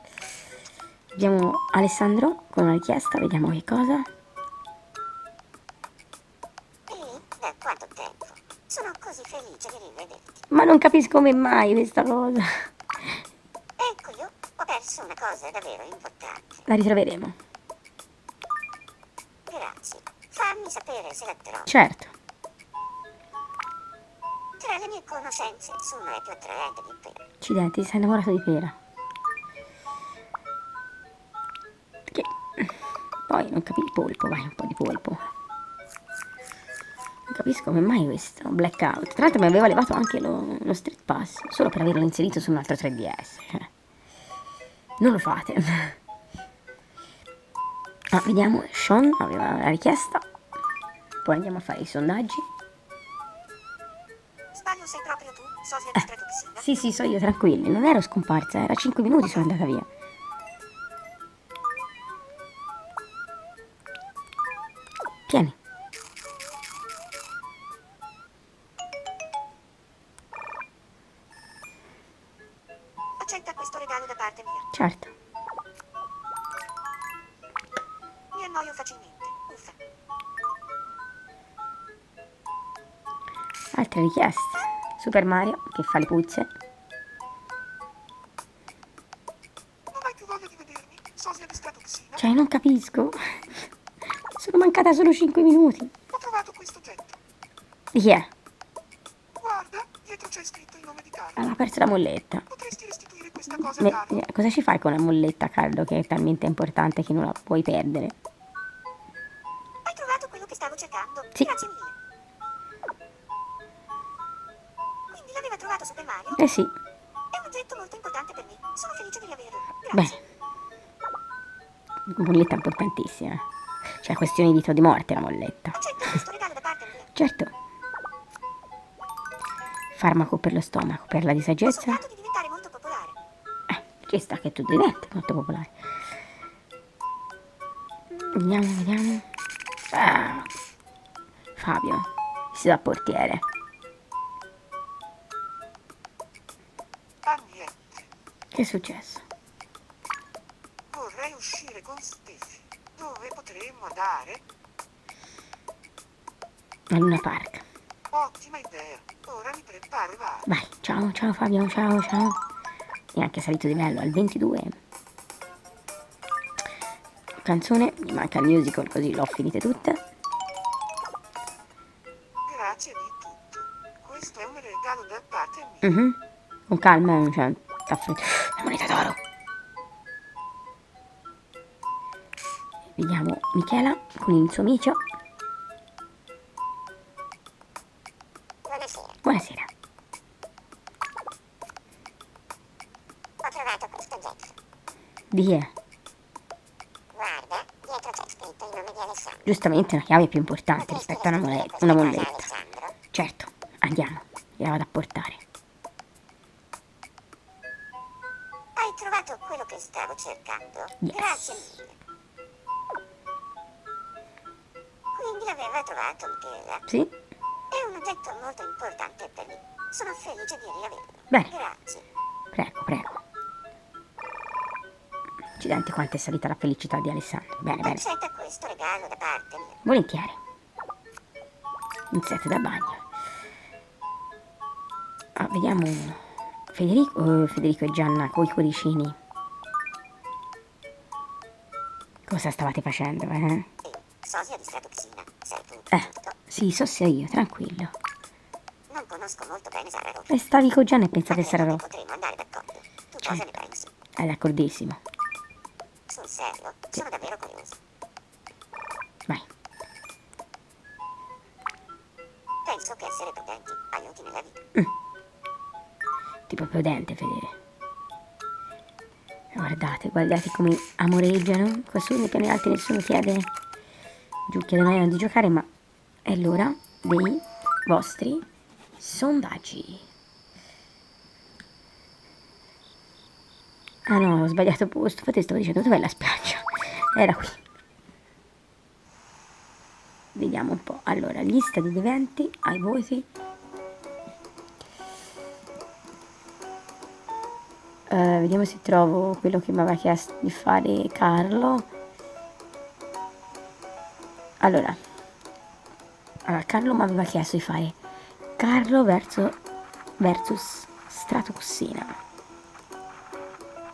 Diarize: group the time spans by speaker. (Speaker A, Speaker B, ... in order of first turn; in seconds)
Speaker A: 1.1-4.1, 10.5-12.7, 16.7-17.3, 21.6-22.1, 27.4-28.8, 32.1-32.7, 33.3-35.2, 37.3-43.7, 45.0-46.0, 48.1-50.2, 51.2-52.5, 56.6-59.9, 65.3-65.5, 74.7-75.1, 83.7-86.5, 92.2-93.7, 94.3-95.9, 97.9-98.3, 101.3-102.5, 103.5-108.2, 116.3-116.7, 119.9-120.2, 122.1-123.4, 124.0-126.2, 127.1-127.5, 129.9-132.0, 133.7-135.7, 138.1-139.2, 139.9-140.5, 141.6-143.4, 148.5-149.2, 156.9-157.6, 160.4-162.4, 163.1-164.8, 167.4-170.0, 175.8-176.2, 176.7-179.2, 182.9-185.0, 189.2-189.7, 195.3-195.7, 199.4-202.5, 203.1-205.4, 211.0-211.7, 216.9-217.1, 222.5-223.2, 225.6-228.0, 229.8-230.4, 232.1-233.0, 235.4-236.2, 236.7-239.2, 242.3-243.7, 245.9-247.9, 250.3-251.8, 253.2-253.6, 254.2-255.0, 266.5-267.5, 269.5-273.5, 274.5-275.7, 276.2-278.4, 279.0-280.1, 284.1-287.6, 290.3-293.2, 298.1-301.9, 304.6-305.0, 306.4-307.9, 308.6-309.6, 310.2-312.2
Speaker B: 6.9-10.4, 13.8-16.6, 19.4-21.7, 24.6-27.2, 54.5-56.5, 73.2-73.8, 79.4-79.7, 109.8-111.9, 115.5-116.2, 117.3-119.7, 126.0-127.0, 131.9-133.1, 188.6-189.2, 193.4-194.5, 197.1-199.5, 200.7-202.9, 208.8-211.9, 215.1-216.8, 217.7-222.0, 227.8-229.8, 243.8-246.3, 248.9-250.3, 251.3-253.9, 256.1-257.8, 262.6-264.6
Speaker C: 54.8-55.0, 55.5-56.5, 73.2-74.6, 78.3-79.4, 89.9-92.2, 96.1-97.2, 99.3-101.5, 102.5-104.2, 110.8-111.0, 115.1-116.3, 117.6-120.0, 147.2-148.0, 150.9-154.4, 158.1-160.4, 172.4-175.8